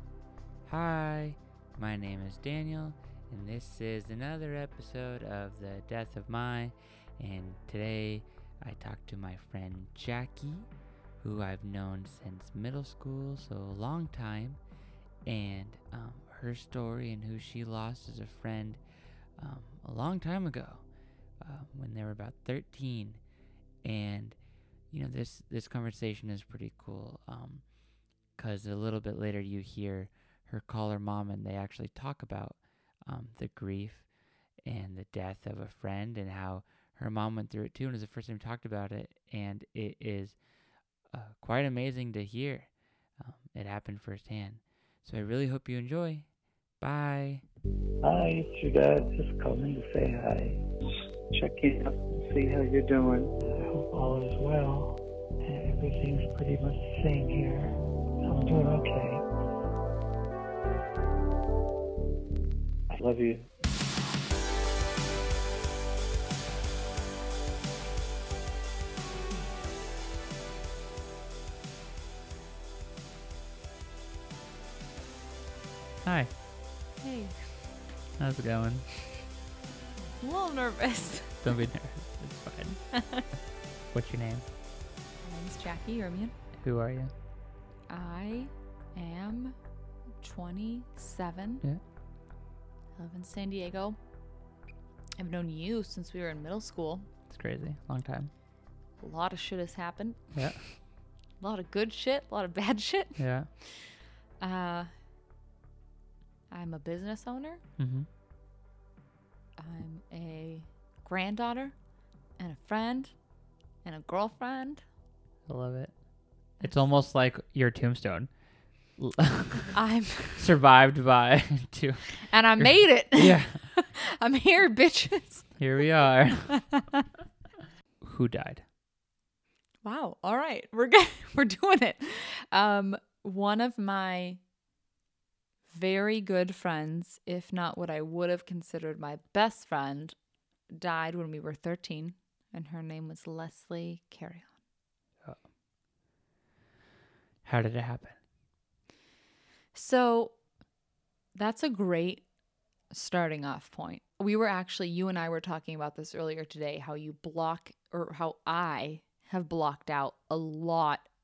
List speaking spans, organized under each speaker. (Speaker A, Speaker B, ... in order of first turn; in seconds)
Speaker A: 0.7-14.7, 15.2-23.2, 23.8-47.4, 76.0-76.3, 78.2-79.0, 81.4-83.4, 83.9-84.5, 86.6-87.1, 97.3-98.3, 100.3-100.8, 103.2-103.5, 107.8-108.1, 115.5-119.8, 120.3-123.8, 125.6-126.8, 128.0-128.7, 147.4-148.2
Speaker B: 48.0-50.6, 51.3-59.2, 62.9-63.5
Speaker C: 77.0-77.6, 80.2-81.4, 82.9-83.2, 85.2-86.3, 87.9-89.6, 90.2-91.6, 92.9-94.1, 95.2-97.1, 99.0-104.9, 106.5-107.6, 109.6-113.3, 113.8-114.8, 116.6-116.8, 119.7-120.4, 122.3-125.7, 129.8-134.4, 135.7-140.2, 140.7-144.5, 149.7-150.4, 151.3-152.3, 152.9-161.1